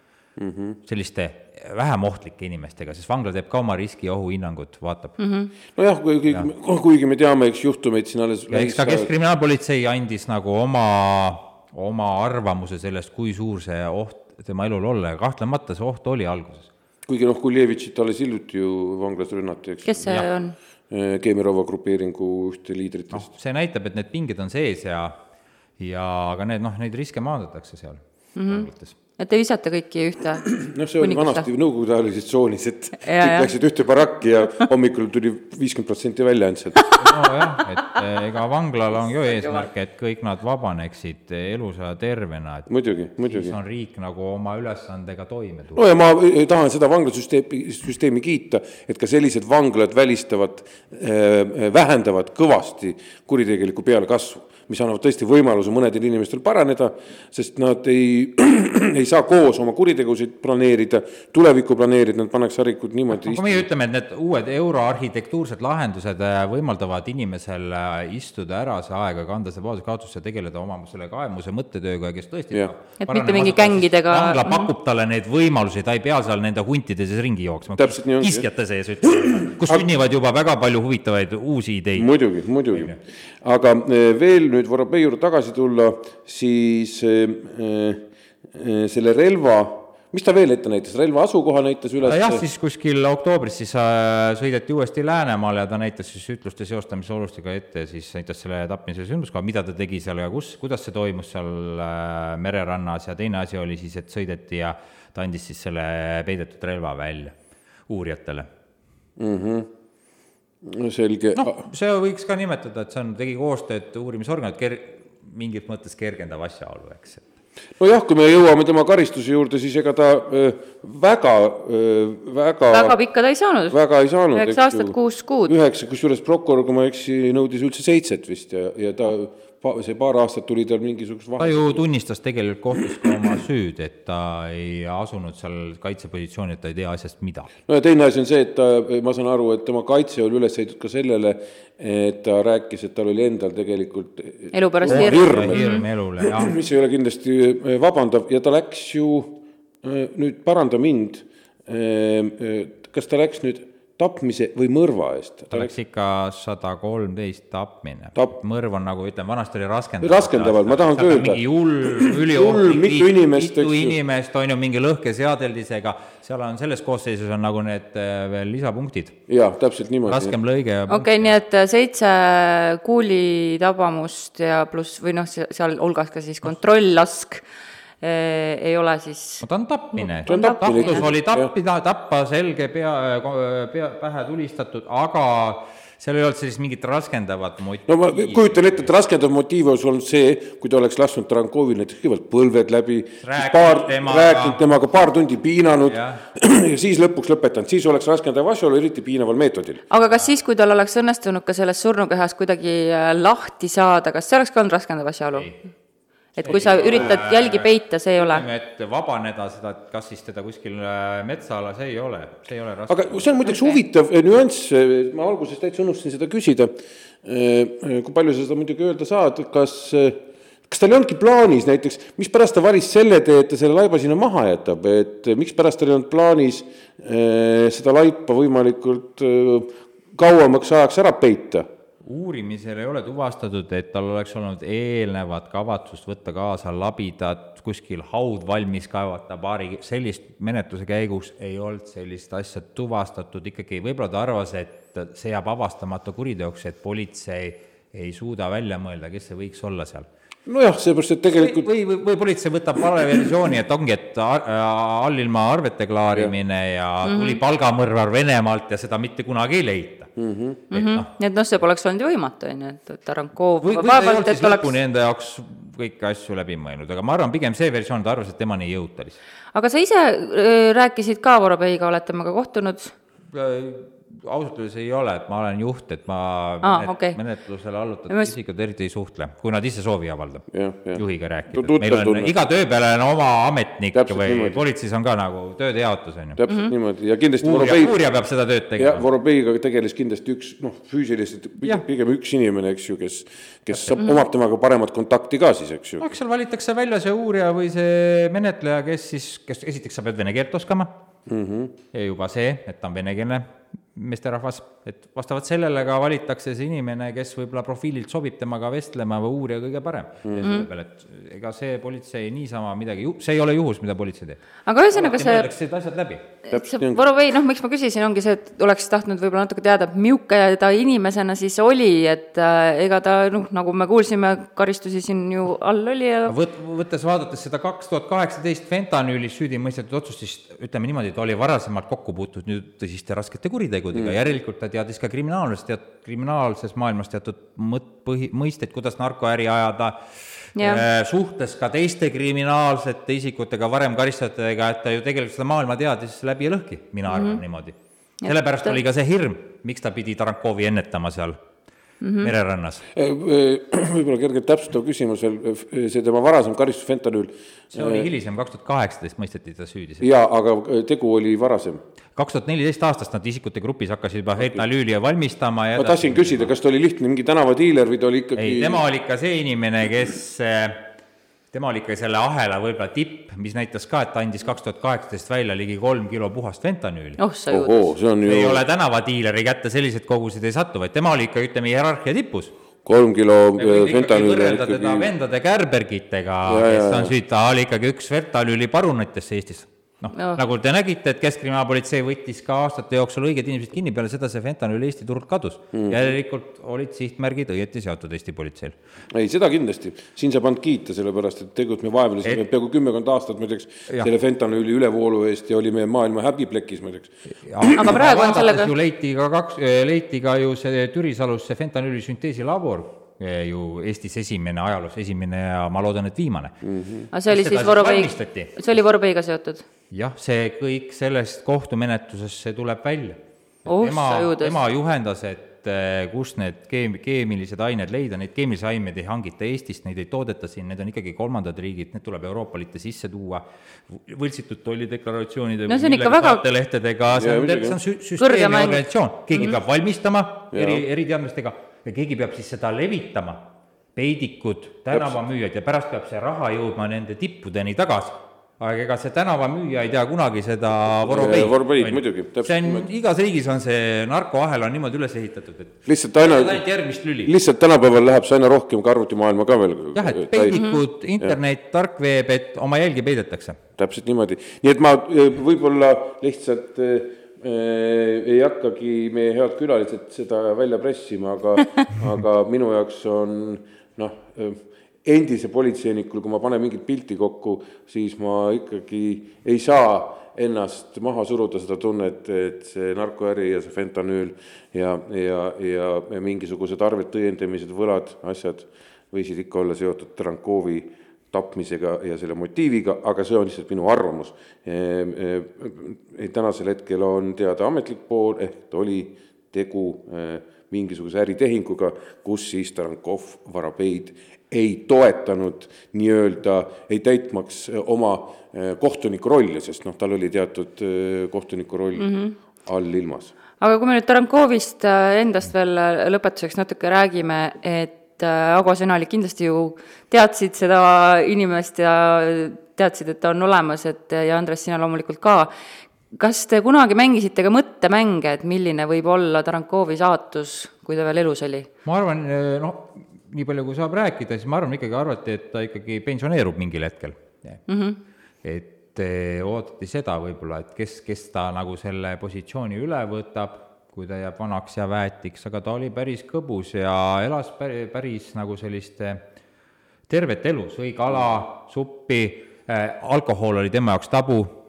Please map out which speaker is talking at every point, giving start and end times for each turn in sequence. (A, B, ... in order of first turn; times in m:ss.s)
0:00.4-0:00.8 A
0:00.9-0:05.2 B
0:05.2-0:05.5 C
0:05.8-0:09.1 A
0:08.5-0:16.7 B
0:17.1-0:20.1 A
0:19.8-0:20.6 C
0:20.9-0:23.3 A
0:23.1-0:25.1 B
0:25.8-0:29.0 B
0:28.4-0:31.5 C
0:30.4-0:36.9 A
0:33.0-0:33.5 C
0:37.0-0:42.7 B
0:42.7-0:43.6 A
0:43.2-0:45.8 B
0:45.8-1:03.7 A
1:03.1-1:22.1 B
1:13.0-1:14.7 C
1:17.8-1:18.5 A
1:19.3-1:19.9 A
1:22.0-1:32.4 A
1:22.7-1:23.0 B
1:32.0-1:47.3 B
1:47.9-1:48.5 B
1:49.2-1:49.7 A
1:50.6-1:51.6 A
1:51.4-1:57.2 B
1:57.8-2:03.0 A
2:02.7-2:03.8 C
2:03.7-2:05.0 A
2:04.3-2:05.5 C
2:05.5-2:11.8 A
2:11.4-2:17.5 B
2:12.8-2:13.1 A
2:17.7-2:35.7 A
2:24.5-2:25.8 C
2:24.9-2:26.6 B
2:35.5-2:49.2 B
2:40.0-2:44.0 A
2:49.3-2:50.4 A
2:50.1-2:51.3 B
2:50.9-2:57.4 C
2:58.0-2:59.4 C
2:59.4-3:08.9 B
3:00.0-3:01.1 C
3:00.3-3:01.5 A
3:07.9-3:19.8 A
3:13.2-3:14.6 B
3:15.9-3:16.2 B
3:19.9-3:25.5 C
3:26.4-3:28.4 C
3:26.4-3:27.7 B
3:28.2-3:33.3 B
3:32.9-3:36.7 A
3:33.5-3:33.8 C
3:37.2-3:51.7 A
3:52.1-4:10.1 B
4:10.5-4:11.7 A
4:11.3-4:20.1 B
4:17.0-4:17.4 C
4:20.2-4:20.6 A
4:20.7-4:21.1 B
4:20.7-4:24.8 C
4:23.6-4:29.2 B
4:29.5-4:32.9 C
4:33.3-4:46.4 B
4:36.6-4:37.2 C
4:40.5-4:42.3 A
4:43.9-4:44.6 A
4:46.4-4:48.0 A
4:46.5-4:46.7 C
4:47.4-4:49.1 B
4:48.8-4:56.1 A
4:56.0-5:00.9 B
5:01.3-5:01.8 A
5:01.9-5:14.4 B
5:10.2-5:10.5 A
5:14.7-5:15.5 C
5:14.9-5:16.3 B
5:16.5-5:26.4 C
5:16.5-5:17.0 A
5:26.3-5:51.4 B
5:40.6-5:40.8 C
5:47.1-5:47.4 C
5:48.2-5:48.8 C
5:52.0-5:52.3 C
5:52.2-5:52.8 B
5:53.0-5:58.1 A
5:57.7-6:00.1 B
6:00.0-6:01.8 A
6:02.2-6:06.5 B
6:04.4-6:04.6 A
6:05.8-6:08.8 A
6:08.4-6:10.8 B
6:11.5-6:17.2 B
6:17.2-6:17.9 C
6:17.5-6:18.6 A
6:18.2-6:22.5 B
6:22.8-6:25.1 A
6:23.6-6:38.8 B
6:26.5-6:27.1 A
6:35.7-6:36.1 A
6:39.1-6:47.8 A
6:47.5-6:56.6 B
6:47.8-6:48.7 C
6:56.6-6:57.1 A
6:57.1-6:59.7 C
6:57.3-6:58.5 B
6:59.9-7:23.4 B
7:03.7-7:04.6 C
7:15.7-7:16.4 C
7:17.1-7:17.8 A
7:18.2-7:18.8 C
7:20.5-7:20.8 A
7:24.0-7:37.3 B
7:31.0-7:32.9 A
7:35.9-7:36.6 A
7:37.2-7:40.6 A
7:40.0-7:43.6 B
7:40.5-7:40.8 C
7:43.8-8:32.1 A
8:32.0-8:32.4 C
8:32.6-8:33.3 A
8:33.6-8:45.5 C
8:46.1-8:51.7 C
8:51.8-8:57.6 B
8:57.7-8:58.0 C
8:58.4-9:09.2 B
9:10.1-9:14.5 B